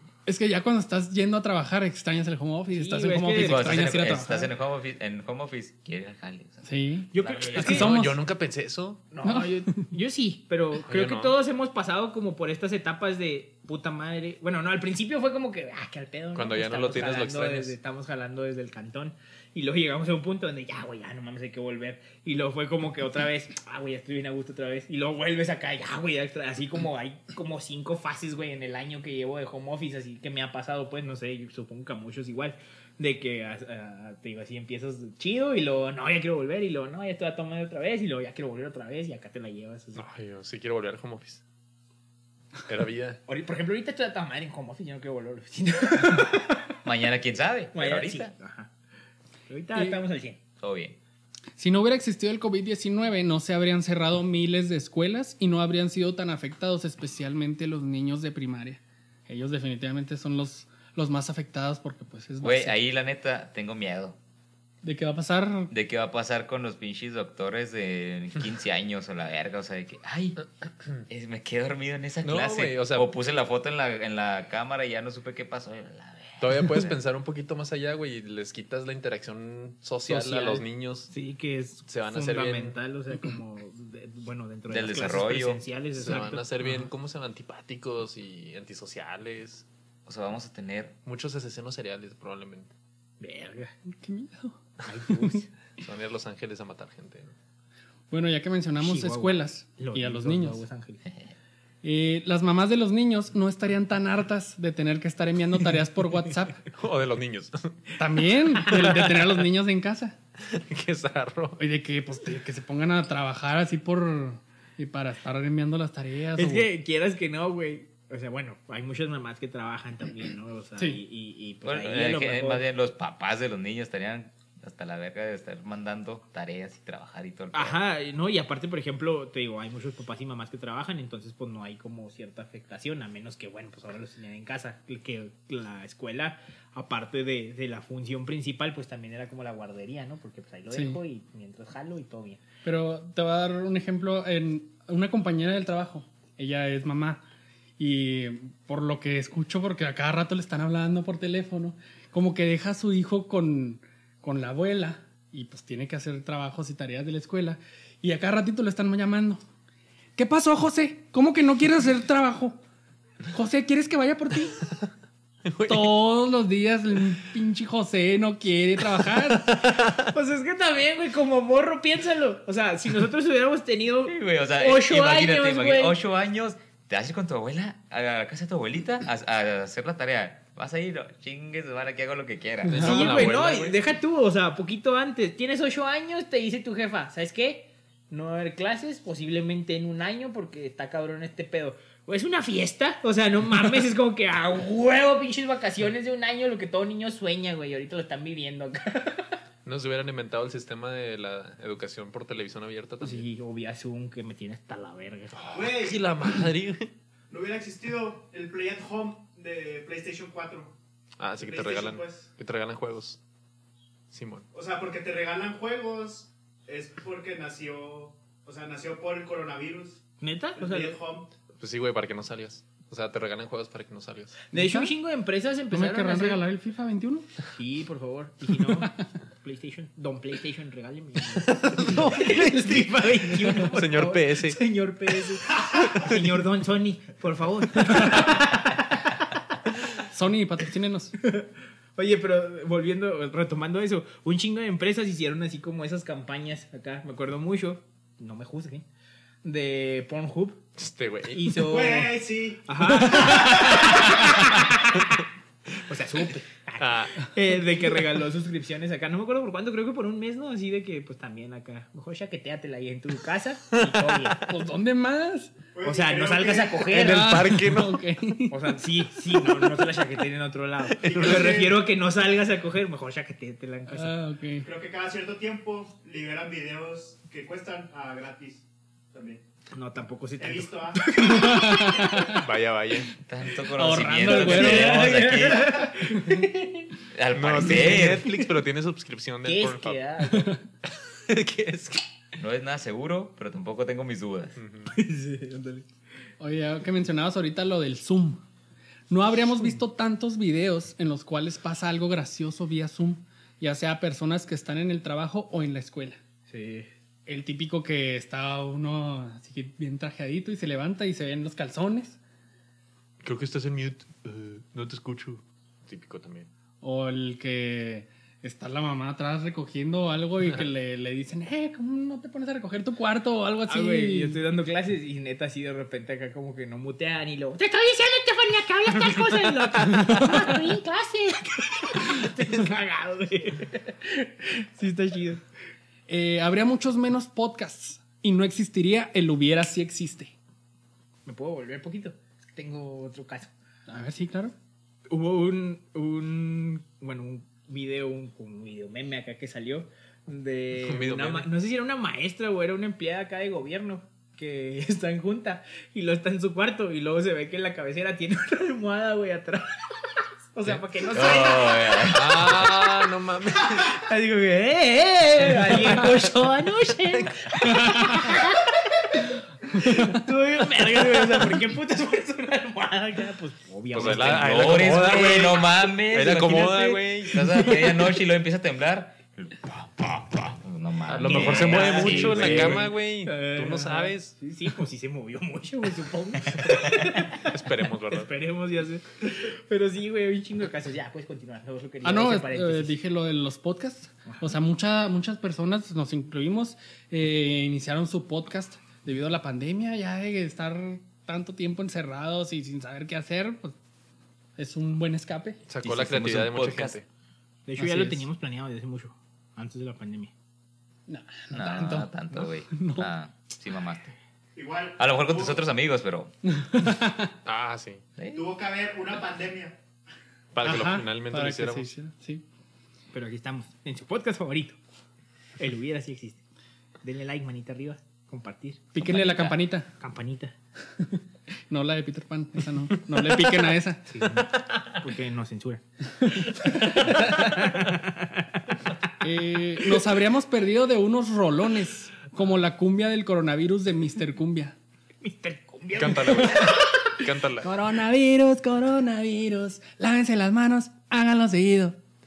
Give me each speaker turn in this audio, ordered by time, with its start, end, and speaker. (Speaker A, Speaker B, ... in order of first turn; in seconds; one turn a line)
Speaker A: 0.3-4.5
Speaker B: 2.7-3.9
Speaker C: 3.3-8.0
Speaker A: 6.7-8.2
Speaker B: 7.1-8.0
Speaker D: 7.5-9.0
Speaker B: 9.1-40.0
Speaker A: 9.2-9.5
Speaker D: 10.8-11.4
Speaker D: 16.4-17.8
Speaker D: 40.0-41.4
Speaker D: 42.7-43.2
Speaker B: 43.3-46.6
Speaker C: 46.8-48.3
Speaker B: 47.7-48.7
Speaker B: 49.5-50.4
Speaker A: 49.8-50.0
Speaker C: 50.6-51.0
Speaker A: 51.6-62.8
Speaker C: 62.4-64.2
Speaker A: 64.8-65.7
Speaker C: 65.7-70.4
Speaker C: 71.1-77.0
Speaker D: 72.2-73.1
Speaker D: 76.4-81.1
Speaker B: 80.1-86.8
Speaker D: 81.9-82.8
Speaker C: 84.7-85.6
Speaker D: 86.0-89.7
Speaker C: 90.1-91.0
Speaker D: 91.0-92.7
Speaker B: 93.2-93.7
Speaker A: 93.9-94.6
Speaker B: 94.8-95.5
Speaker A: 95.1-95.4
Speaker D: 95.8-97.3
Speaker A: 98.1-100.6
Speaker B: 98.8-101.1
Speaker A: 101.8-106.7
Speaker D: 106.7-107.8
Speaker A: 108.0-110.2
Speaker D: 108.7-109.3
Speaker D: 110.5-111.6
Speaker A: 111.6-116.7
Speaker B: 116.4-122.7
Speaker C: 121.6-127.8
Speaker B: 127.5-142.4
Speaker A: 140.7-141.0
Speaker A: 142.6-147.2
Speaker A: 147.8-159.4
Speaker A: 160.2-162.6
Speaker A: 163.3-164.7
Speaker D: 165.5-165.9
Speaker A: 165.7-169.6
Speaker D: 169.2-170.1
Speaker B: 170.0-176.0
Speaker C: 174.1-183.4
Speaker A: 182.7-183.1
Speaker D: 182.7-183.8
Speaker B: 182.8-199.4
Speaker D: 199.7-203.2
Speaker B: 203.0-205.6
Speaker D: 205.4-206.9
Speaker E: 205.5-206.1
Speaker E: 207.3-210.8
Speaker D: 211.2-213.2
Speaker E: 211.4-212.3
Speaker D: 214.1-214.5
Speaker E: 214.5-220.0
Speaker B: 220.2-221.0
Speaker E: 220.6-221.3
Speaker D: 221.6-224.4
Speaker A: 224.5-224.9
Speaker B: 224.5-226.4
Speaker A: 225.7-227.3
Speaker B: 227.5-239.0
Speaker A: 228.6-229.0
Speaker D: 231.4-234.6
Speaker A: 231.9-232.6
Speaker D: 235.8-236.3
Speaker A: 240.1-241.2
Speaker B: 241.2-248.9
Speaker B: 249.4-250.6
Speaker D: 250.8-251.5
Speaker B: 251.3-255.2
Speaker E: 251.6-254.2
Speaker B: 255.8-264.5
Speaker D: 256.8-257.3
Speaker D: 263.7-264.3
Speaker A: 264.5-265.5
Speaker E: 265.7-266.9
Speaker B: 265.8-267.3
Speaker D: 266.9-268.0
Speaker A: 266.9-268.7
Speaker B: 268.5-274.2
Speaker A: 269.3-269.9
Speaker E: 271.0-271.8
Speaker D: 271.1-271.6
Speaker A: 273.9-274.7
Speaker E: 274.6-279.4
Speaker B: 279.7-282.3
Speaker E: 280.4-281.1
Speaker A: 281.2-282.4
Speaker D: 282.3-283.1
Speaker C: 283.2-285.9
Speaker A: 283.7-285.1
Speaker B: 284.2-286.9
Speaker A: 286.2-286.5
Speaker C: 287.1-288.3
Speaker D: 287.3-290.2
Speaker B: 289.4-290.6
Speaker D: 291.1-292.0
Speaker C: 292.4-294.6
Speaker D: 294.6-294.9
Speaker B: 294.9-295.9
Speaker A: 296.4-298.4
Speaker A: 299.1-306.2
Speaker B: 306.5-306.9
Speaker A: 307.3-312.2
Speaker D: 313.2-316.5
Speaker A: 316.8-324.4
Speaker D: 320.4-320.7
Speaker B: 323.7-335.4
Speaker A: 330.1-330.5
Speaker A: 336.1-340.3
Speaker B: 341.3-343.5
Speaker A: 343.9-344.5
Speaker B: 345.1-362.2
Speaker D: 350.8-351.5
Speaker C: 361.1-362.7
Speaker D: 362.1-364.0
Speaker B: 363.8-375.0
Speaker D: 365.6-366.2
Speaker A: 369.8-370.2
Speaker D: 373.9-377.6
Speaker C: 374.0-382.9
Speaker D: 381.1-384.4
Speaker B: 381.2-387.6
Speaker C: 386.6-386.9
Speaker D: 387.3-388.3
Speaker B: 388.1-393.0
Speaker A: 392.0-403.8
Speaker A: 404.6-405.6
Speaker D: 405.7-407.1
Speaker C: 405.8-407.0
Speaker B: 407.7-410.3
Speaker A: 407.8-408.3
Speaker A: 411.1-413.1
Speaker C: 411.5-414.1
Speaker E: 414.6-415.6
Speaker C: 415.0-416.3
Speaker A: 416.6-417.3
Speaker D: 417.4-418.0
Speaker C: 418.2-418.5
Speaker E: 418.3-419.8
Speaker D: 420.5-421.9
Speaker A: 420.6-422.4
Speaker B: 423.1-424.8
Speaker B: 425.6-426.4
Speaker B: 427.0-430.6
Speaker A: 428.9-429.9
Speaker A: 431.0-434.3
Speaker D: 433.2-433.7
Speaker B: 434.1-435.8
Speaker A: 436.2-437.3
Speaker B: 436.5-438.9
Speaker A: 439.2-444.8
Speaker B: 445.2-446.9
Speaker D: 445.9-447.7
Speaker A: 446.4-446.9
Speaker A: 447.6-452.0